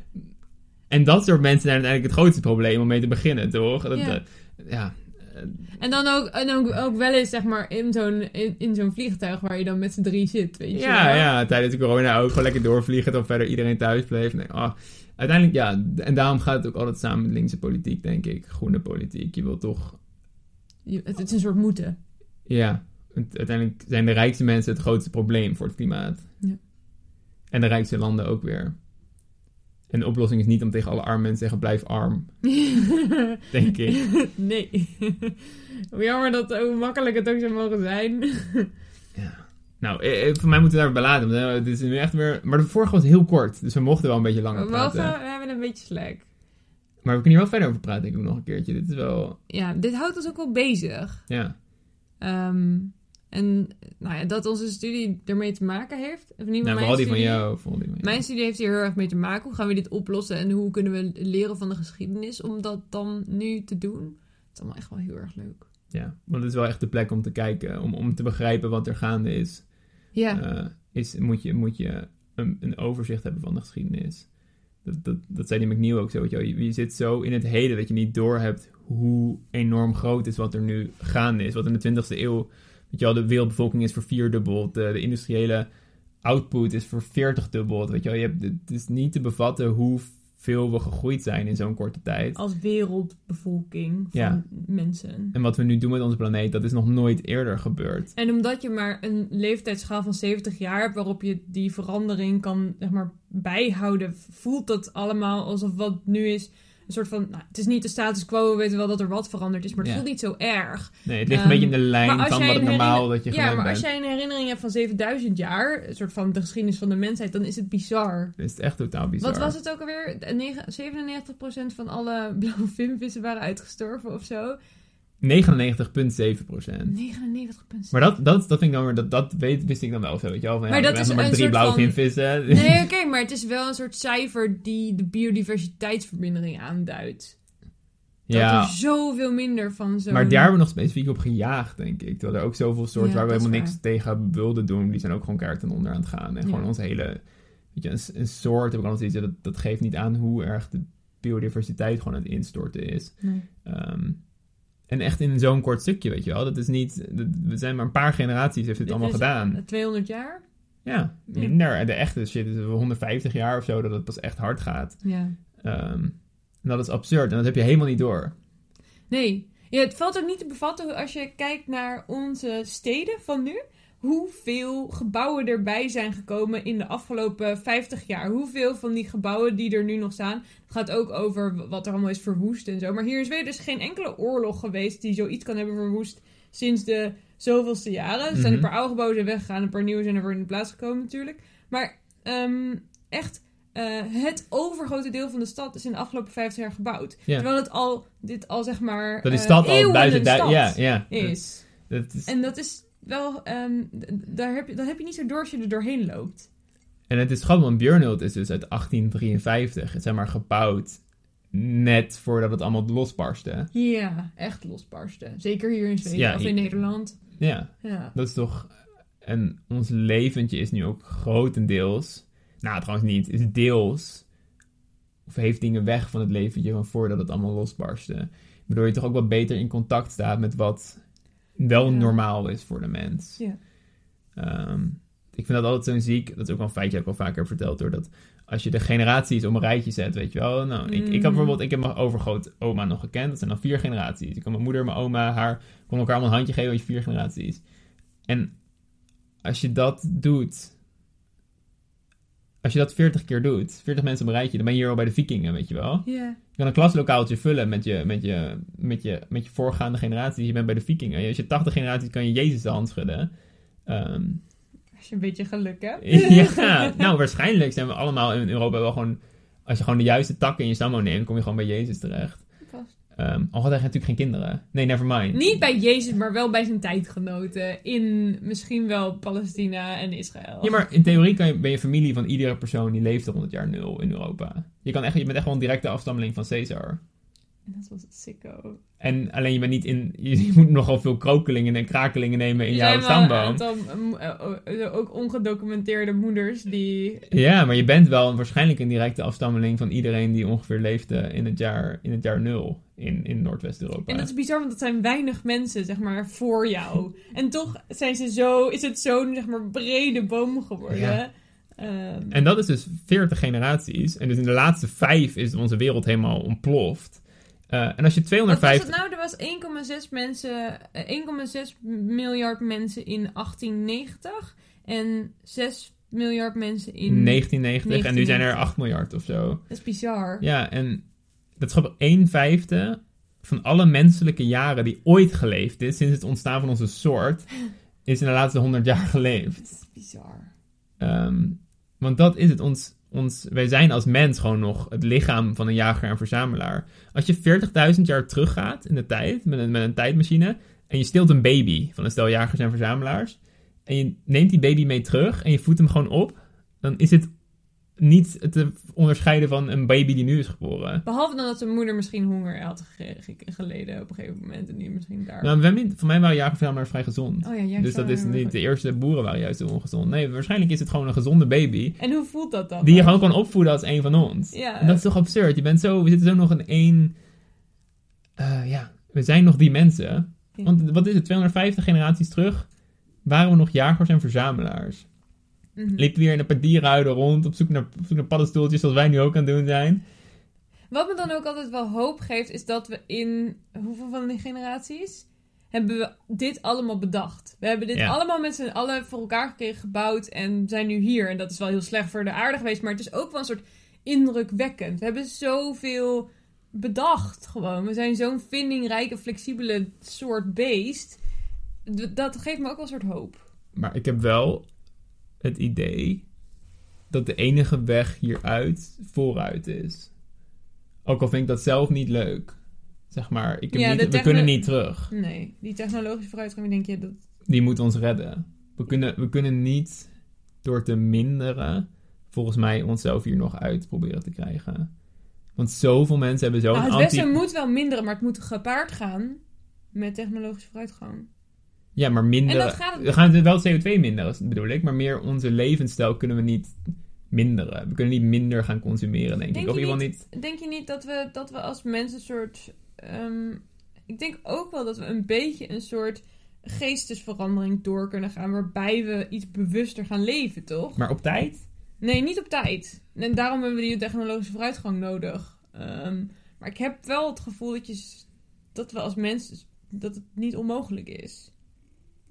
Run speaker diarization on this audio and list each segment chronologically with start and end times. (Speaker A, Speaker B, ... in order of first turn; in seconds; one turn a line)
Speaker A: 0.9-5.6
Speaker B: 3.9-4.2
Speaker B: 5.8-11.3
Speaker A: 10.7-20.0
Speaker B: 20.9-22.0
Speaker A: 22.5-26.3
Speaker A: 27.5-28.8
Speaker A: 29.9-32.4
Speaker B: 32.4-38.7
Speaker A: 33.5-34.0
Speaker A: 39.2-45.1
Speaker B: 44.5-46.2
Speaker A: 47.0-49.4
Speaker B: 49.5-51.3
Speaker A: 51.3-51.6
Speaker B: 52.2-57.5
Speaker A: 56.6-58.2
Speaker B: 58.0-65.7
Speaker A: 65.9-69.7
Speaker B: 70.1-70.4
Speaker A: 70.3-74.3
Speaker A: 74.8-85.7
Speaker A: 86.2-92.4
Speaker B: 92.4-95.3
Speaker A: 94.1-94.4
Speaker A: 95.3-98.1
Speaker B: 98.2-118.3
Speaker A: 111.1-113.8
Speaker A: 118.4-119.5
Speaker B: 119.2-124.6
Speaker A: 125.2-127.0
Speaker B: 126.9-128.0
Speaker A: 127.9-132.9
Speaker B: 130.7-137.4
Speaker A: 138.3-138.8
Speaker B: 138.3-140.5
Speaker A: 140.1-147.2
Speaker B: 143.0-143.8
Speaker B: 146.4-146.7
Speaker A: 147.8-154.2
Speaker A: 154.9-159.6
Speaker B: 158.8-160.4
Speaker A: 160.8-165.0
Speaker B: 165.0-165.3
Speaker A: 165.6-168.3
Speaker B: 169.1-201.7
Speaker A: 188.3-188.7
Speaker A: 199.2-202.3
Speaker B: 202.3-206.5
Speaker A: 207.1-211.0
Speaker A: 211.5-213.7
Speaker B: 213.7-217.2
Speaker A: 216.1-216.7
Speaker A: 217.4-218.7
Speaker B: 217.8-218.1
Speaker A: 219.2-224.2
Speaker A: 225.3-231.0
Speaker A: 231.6-233.4
Speaker B: 231.8-232.2
Speaker A: 234.4-247.6
Speaker B: 240.9-241.6
Speaker A: 249.4-250.7
Speaker A: 252.6-263.3
Speaker B: 256.1-256.4
Speaker A: 263.9-264.4
Speaker B: 265.0-267.1
Speaker A: 266.0-272.4
Speaker B: 272.6-272.9
Speaker A: 273.2-275.6
Speaker B: 275.3-280.8
Speaker A: 280.6-287.0
Speaker B: 287.7-288.8
Speaker A: 289.0-293.6
Speaker B: 292.6-297.3
Speaker A: 297.3-304.3
Speaker B: 304.1-312.4
Speaker A: 310.9-311.2
Speaker A: 312.3-318.9
Speaker B: 318.5-328.7
Speaker A: 327.1-329.6
Speaker B: 329.7-330.4
Speaker A: 330.4-331.0
Speaker A: 331.6-337.5
Speaker A: 338.1-339.6
Speaker B: 339.6-340.5
Speaker A: 341.0-357.3
Speaker A: 358.0-361.0
Speaker B: 361.1-365.5
Speaker A: 365.4-372.0
Speaker B: 367.4-368.6
Speaker B: 372.0-373.2
Speaker A: 372.8-377.1
Speaker B: 374.5-375.0
Speaker A: 378.4-382.7
Speaker A: 383.3-385.1
Speaker B: 385.8-386.1
Speaker A: 386.0-390.0
Speaker B: 390.9-411.2
Speaker B: 411.9-413.4
Speaker A: 413.8-414.7
Speaker A: 415.4-416.2
Speaker A: 417.1-420.1
Speaker A: 421.1-422.6
Speaker A: 423.1-425.1
Speaker B: 423.7-427.2
Speaker A: 427.5-430.1
Speaker A: 430.6-434.9
Speaker A: 435.6-437.4
Speaker B: 436.7-439.4
Speaker B: 439.9-441.3
Speaker A: 442.0-446.7
Speaker B: 442.5-443.1
Speaker A: 447.3-450.2
Speaker B: 449.5-461.0
Speaker A: 461.0-461.6
Speaker B: 462.0-471.5